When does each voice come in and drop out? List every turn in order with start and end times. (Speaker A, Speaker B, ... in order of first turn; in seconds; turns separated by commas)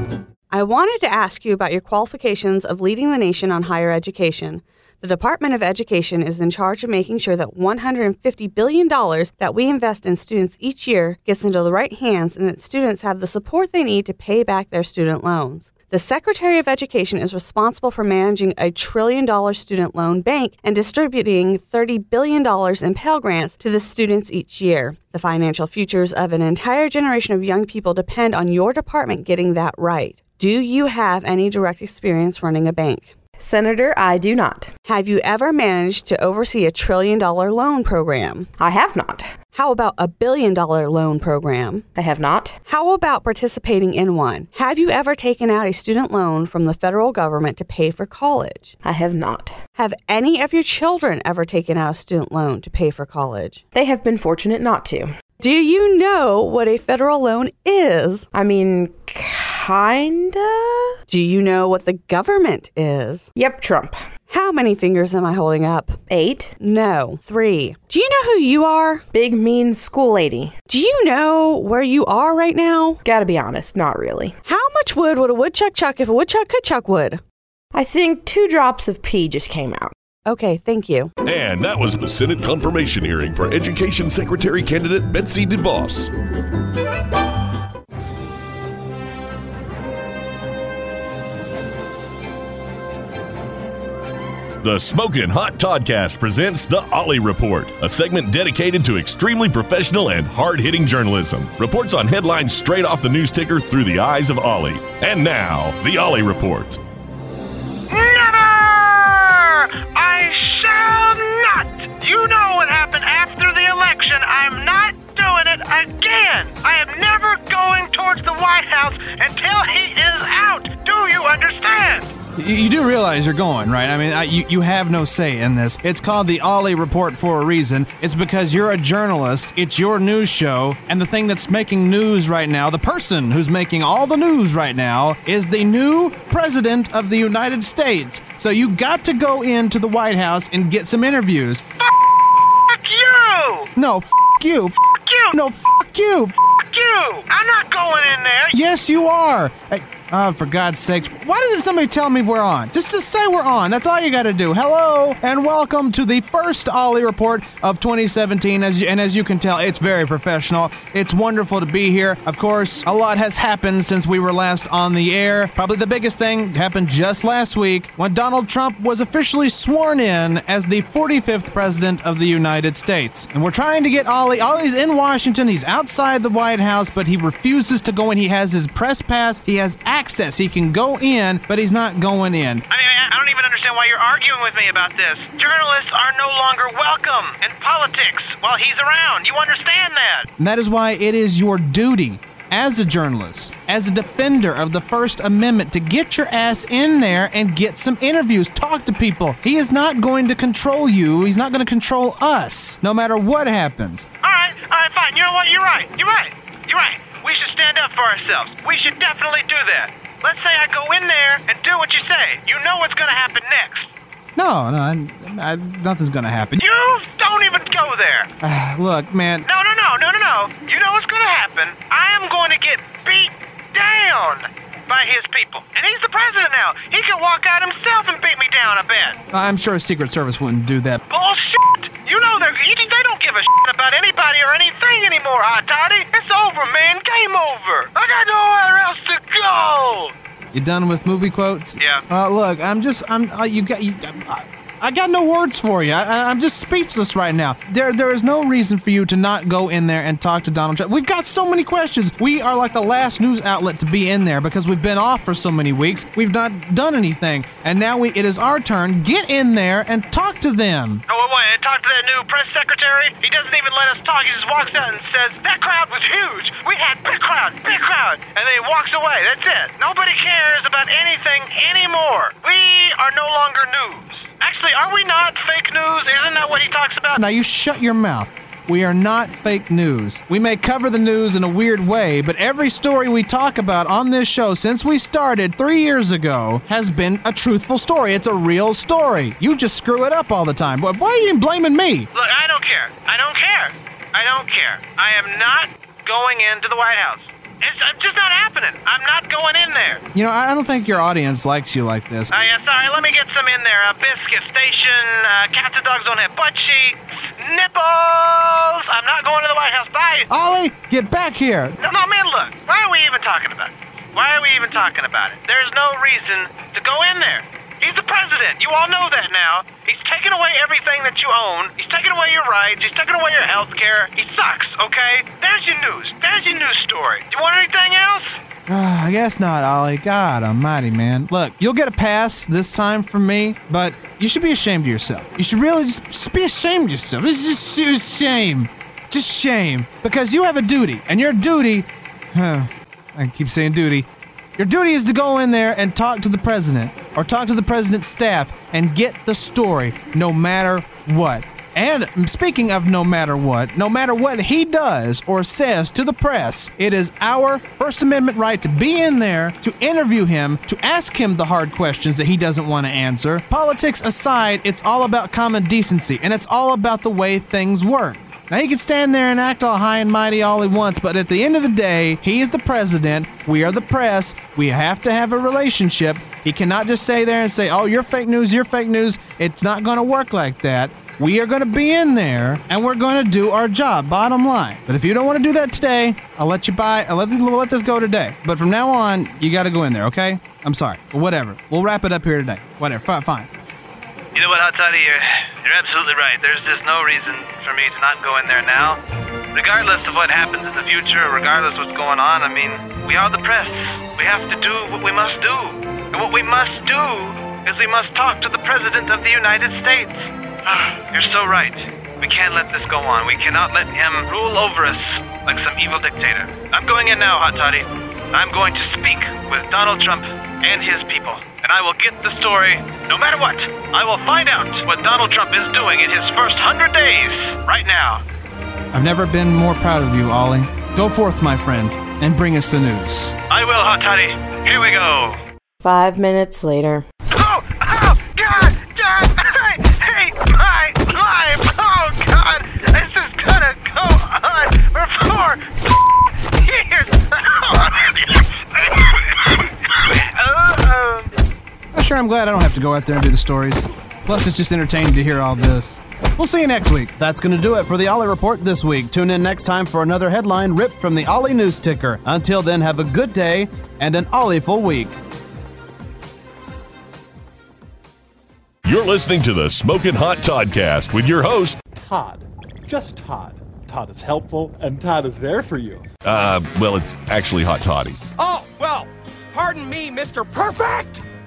Speaker A: 0.5-33.1, Speaker B: 33.4-34.7, Speaker A: 34.9-38.5, Speaker B: 38.6-39.3, Speaker A: 39.5-41.9, Speaker B: 42.0-42.6, Speaker A: 42.7-48.8, Speaker B: 48.8-49.6, Speaker A: 49.8-53.6, Speaker B: 53.7-55.1, Speaker A: 55.4-58.3, Speaker B: 58.3-61.0, Speaker A: 61.1-63.3, Speaker B: 63.4-64.0, Speaker A: 64.3-66.0, Speaker B: 66.1-66.5, Speaker A: 66.6-69.0, Speaker B: 69.1-70.5, Speaker A: 70.7-73.0, Speaker B: 73.0-74.4, Speaker A: 74.5-77.2, Speaker B: 77.7-79.9, Speaker A: 80.2-81.1, Speaker C: 81.2-86.1, Speaker C: 94.6-106.8, Speaker D: 107.9-122.1, Speaker E: 122.3-141.7, Speaker D: 141.8-142.1, Speaker D: 142.7-143.7, Speaker E: 143.8-144.7, Speaker D: 144.8-145.4, Speaker E: 145.3-146.3, Speaker D: 146.4-148.5, Speaker E: 148.5-182.7, Speaker D: 182.7-190.3, Speaker E: 190.4-204.1, Speaker D: 204.2-213.9, Speaker E: 214.4-216.7, Speaker D: 216.6-218.3, Speaker E: 218.4-219.4, Speaker D: 219.4-229.2, Speaker E: 229.3-231.0, Speaker D: 231.1-240.1, Speaker E: 240.5-261.1, Speaker D: 261.1-277.2, Speaker E: 277.2-292.1, Speaker D: 292.1-300.0, Speaker E: 300.1-302.3, Speaker D: 302.3-310.3, Speaker E: 310.3-311.8, Speaker D: 311.8-328.4, Speaker E: 328.7-393.5, Speaker D: 394.4-399.0, Speaker D: 399.6-428.2, Speaker E: 428.9-433.4, Speaker D: 433.5-435.4, Speaker B: 435.8-437.1, Speaker D: 437.3-451.3, Speaker E: 451.9-465.1, Speaker C: 468.9-471.8, Speaker F: 471.9-476.1, Speaker C: 476.2-478.2, Speaker G: 478.4-481.2